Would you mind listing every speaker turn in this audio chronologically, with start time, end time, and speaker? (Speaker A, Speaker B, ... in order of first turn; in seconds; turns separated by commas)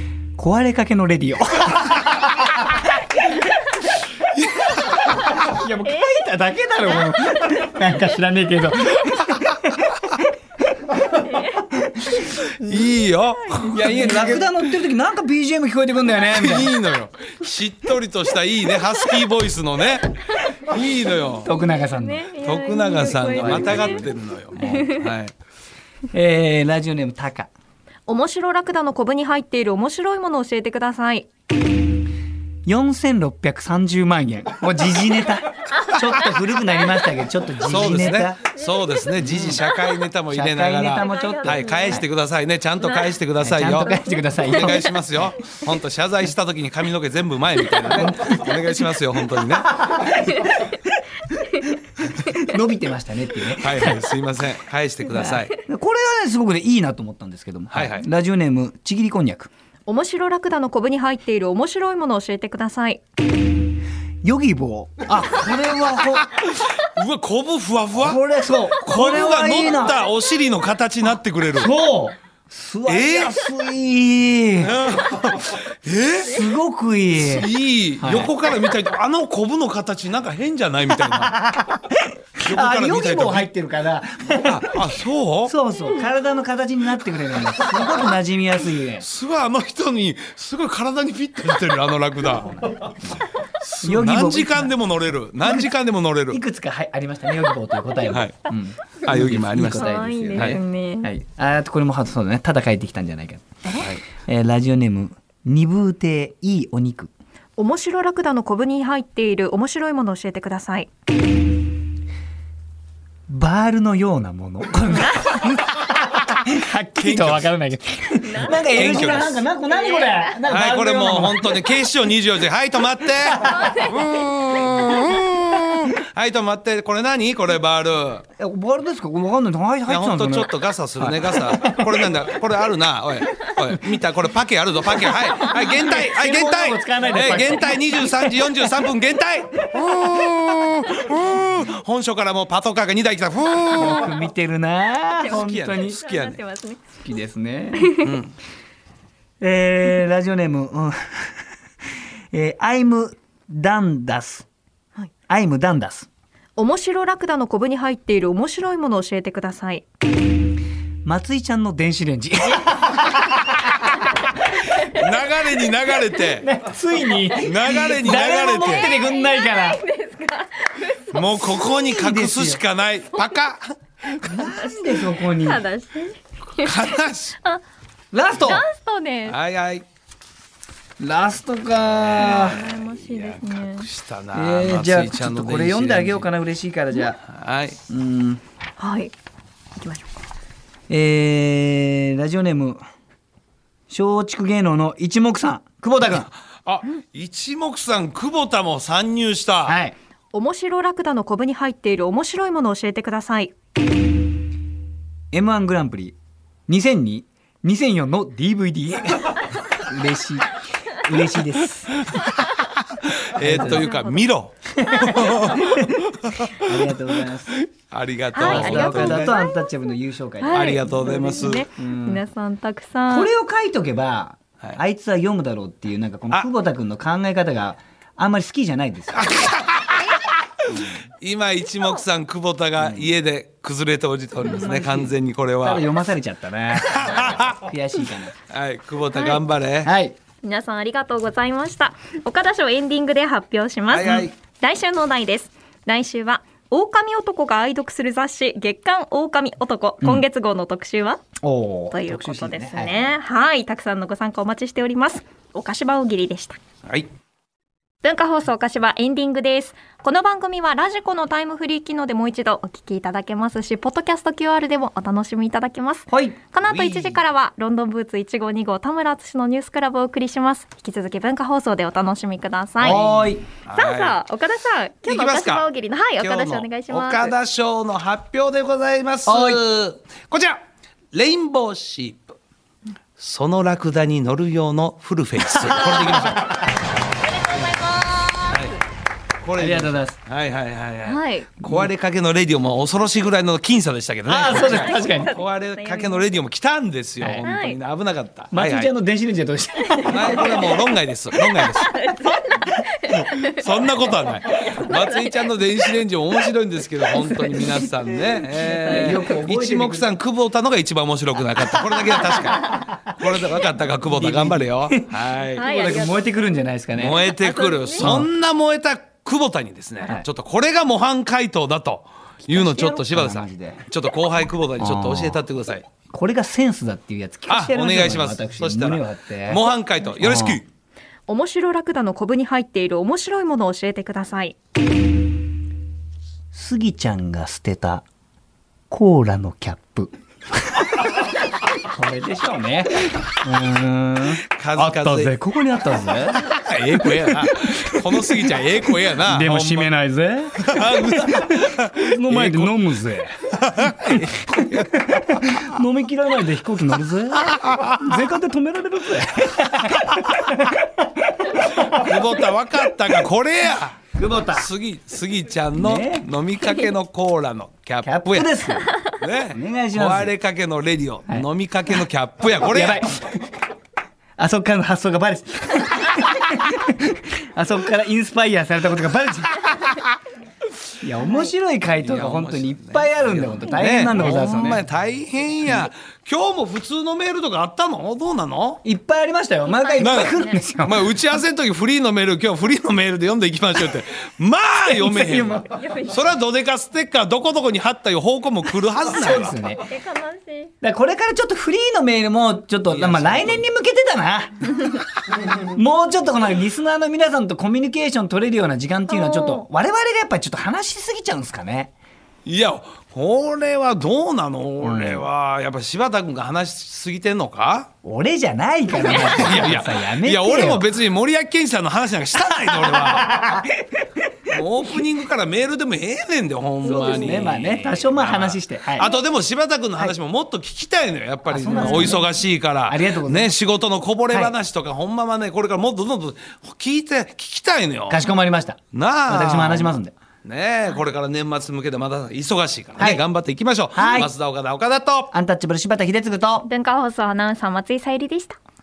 Speaker A: 0.4-2.9, Speaker B: 4.4-5.1, Speaker A: 5.1-10.2, Speaker C: 5.8-6.3, Speaker C: 6.9-7.6, Speaker A: 10.9-11.2, Speaker C: 11.2-12.9, Speaker B: 12.4-14.6, Speaker C: 13.5-14.2, Speaker A: 13.7-16.7, Speaker B: 16.3-21.5, Speaker A: 21.4-22.3, Speaker C: 21.4-25.1, Speaker B: 22.4-25.3, Speaker A: 23.2-25.0, Speaker A: 26.1-27.5, Speaker C: 28.1-31.3, Speaker A: 32.7-38.4, Speaker B: 37.6-49.9, Speaker C: 38.6-39.1, Speaker A: 39.2-39.6, Speaker A: 40.3-42.0, Speaker C: 40.9-42.0, Speaker C: 42.8-43.1, Speaker A: 43.4-44.9, Speaker C: 43.8-44.8, Speaker A: 47.9-48.5, Speaker A: 49.5-50.7, Speaker C: 50.1-50.7, Speaker A: 52.1-54.2, Speaker B: 53.5-55.6, Speaker A: 55.1-59.5, Speaker B: 57.7-58.1, Speaker C: 59.9-63.0, Speaker A: 64.2-66.3, Speaker B: 66.2-68.2, Speaker A: 68.0-70.0, Speaker B: 68.8-71.7, Speaker C: 69.6-70.0, Speaker A: 71.5-74.8, Speaker B: 72.9-73.4, Speaker B: 74.6-76.4, Speaker A: 76.2-77.5, Speaker B: 77.2-81.4, Speaker A: 78.0-78.3, Speaker A: 81.0-89.1, Speaker B: 82.4-83.5, Speaker B: 84.4-85.5, Speaker B: 89.0-93.0, Speaker A: 92.4-93.2, Speaker B: 93.6-96.4, Speaker A: 93.8-94.7, Speaker A: 95.4-95.7, Speaker A: 96.3-107.1, Speaker B: 98.1-98.4, Speaker B: 99.0-100.6, Speaker C: 99.6-101.1, Speaker B: 103.8-104.0, Speaker C: 107.6-110.9, Speaker A: 113.3-121.5, Speaker C: 114.9-115.5, Speaker B: 117.0-117.5, Speaker C: 118.2-120.3, Speaker B: 118.6-119.5, Speaker B: 120.5-128.2, Speaker A: 123.2-123.8, Speaker C: 123.4-125.0, Speaker A: 128.4-132.1, Speaker B: 129.9-144.2, Speaker A: 135.4-138.7, Speaker A: 143.7-146.0, Speaker C: 145.2-146.8, Speaker B: 145.2-146.4, Speaker A: 147.0-148.0, Speaker C: 147.8-148.1, Speaker B: 147.9-148.3, Speaker A: 149.4-151.4, Speaker A: 152.3-154.5, Speaker A: 155.3-156.1, Speaker C: 156.6-159.8, Speaker A: 161.1-163.8, Speaker B: 164.7-166.5, Speaker A: 166.4-169.8, Speaker B: 167.4-168.9, Speaker C: 167.6-171.7, Speaker B: 171.1-174.4, Speaker A: 171.7-172.6, Speaker A: 174.2-175.6, Speaker C: 174.3-177.6, Speaker B: 176.6-177.4, Speaker A: 178.1-178.7, Speaker C: 178.4-179.4, Speaker B: 179.3-179.8, Speaker A: 181.0-182.6, Speaker B: 181.9-186.3, Speaker C: 182.1-183.9, Speaker A: 184.3-187.2, Speaker B: 187.2-187.8, Speaker A: 187.9-188.4, Speaker C: 188.8-189.1, Speaker C: 189.8-190.1, Speaker A: 190.9-192.8, Speaker A: 193.9-196.3, Speaker B: 196.7-199.8, Speaker A: 199.7-200.0, Speaker C: 200.3-203.5, Speaker A: 205.3-206.2, Speaker A: 206.7-212.1, Speaker B: 213.2-216.5, Speaker A: 213.4-213.9, Speaker C: 213.5-214.3, Speaker A: 214.7-217.5, Speaker C: 214.9-215.7, Speaker B: 217.8-219.4, Speaker C: 218.3-219.6, Speaker A: 218.4-222.2, Speaker C: 220.4-223.3, Speaker B: 220.5-221.7, Speaker A: 223.1-229.4, Speaker B: 229.1-230.7, Speaker A: 230.7-231.0, Speaker B: 231.2-235.8, Speaker A: 232.8-233.1, Speaker A: 234.4-238.3, Speaker B: 236.8-237.5, Speaker B: 238.5-239.9, Speaker C: 239.1-239.4, Speaker A: 239.8-240.2, Speaker C: 240.4-251.2, Speaker B: 243.9-244.3, Speaker A: 251.4-253.1, Speaker C: 251.9-256.6, Speaker C: 258.0-273.0, Speaker A: 266.1-266.4, Speaker B: 266.6-267.2, Speaker A: 272.8-273.4, Speaker B: 273.6-274.2, Speaker C: 273.7-277.3, Speaker B: 275.1-275.6, Speaker B: 276.2-280.6, Speaker A: 279.3-279.6, Speaker B: 281.1-282.4, Speaker B: 283.2-286.7, Speaker A: 285.7-286.5, Speaker C: 287.6-288.3, Speaker B: 288.5-288.8, Speaker B: 289.4-298.9, Speaker A: 289.6-290.2, Speaker C: 291.1-291.5, Speaker A: 294.3-295.3, Speaker C: 294.5-296.3, Speaker C: 297.4-297.8, Speaker A: 298.5-300.6, Speaker C: 299.9-303.9, Speaker B: 300.1-301.9, Speaker B: 303.1-315.7, Speaker C: 304.6-305.9, Speaker C: 307.1-309.3, Speaker A: 308.8-310.1, Speaker A: 312.5-313.1, Speaker A: 314.0-317.3, Speaker C: 315.6-316.7, Speaker B: 316.9-325.9, Speaker C: 317.2-318.1, Speaker A: 318.0-318.3, Speaker A: 322.5-323.8, Speaker A: 324.8-325.4, Speaker A: 326.1-330.6, Speaker B: 327.5-330.7, Speaker C: 331.3-334.6, Speaker A: 336.5-338.0, Speaker A: 338.9-341.2, Speaker A: 341.8-346.5, Speaker B: 344.5-345.4, Speaker B: 346.4-349.9, Speaker A: 347.1-362.1, Speaker B: 350.6-352.7, Speaker B: 353.5-355.1, Speaker B: 357.5-358.0, Speaker B: 361.6-373.1, Speaker A: 364.1-364.7, Speaker A: 365.8-366.3, Speaker A: 368.0-368.9, Speaker A: 369.5-370.3, Speaker A: 371.3-372.0, Speaker A: 372.6-373.6, Speaker A: 374.4-379.9, Speaker A: 381.0-384.8, Speaker C: 381.2-381.5, Speaker B: 382.0-388.8, Speaker A: 388.8-391.0, Speaker C: 389.7-390.6, Speaker B: 390.0-399.6, Speaker A: 394.9-395.7, Speaker C: 395.6-396.4, Speaker A: 399.1-399.9, Speaker C: 399.7-400.7, Speaker A: 400.8-404.8, Speaker B: 402.9-403.6, Speaker A: 405.6-411.9, Speaker C: 409.1-409.7, Speaker B: 412.5-417.9, Speaker A: 414.8-415.2, Speaker A: 418.0-420.9, Speaker C: 419.0-419.6, Speaker B: 419.0-423.4, Speaker A: 422.4-424.3, Speaker B: 424.5-438.2, Speaker C: 426.8-427.6, Speaker A: 426.9-429.1, Speaker A: 431.5-432.3, Speaker C: 431.7-432.2, Speaker A: 432.9-433.5, Speaker A: 438.1-440.1, Speaker B: 438.9-445.3, Speaker A: 443.9-444.3, Speaker A: 445.3-446.7, Speaker C: 446.6-448.6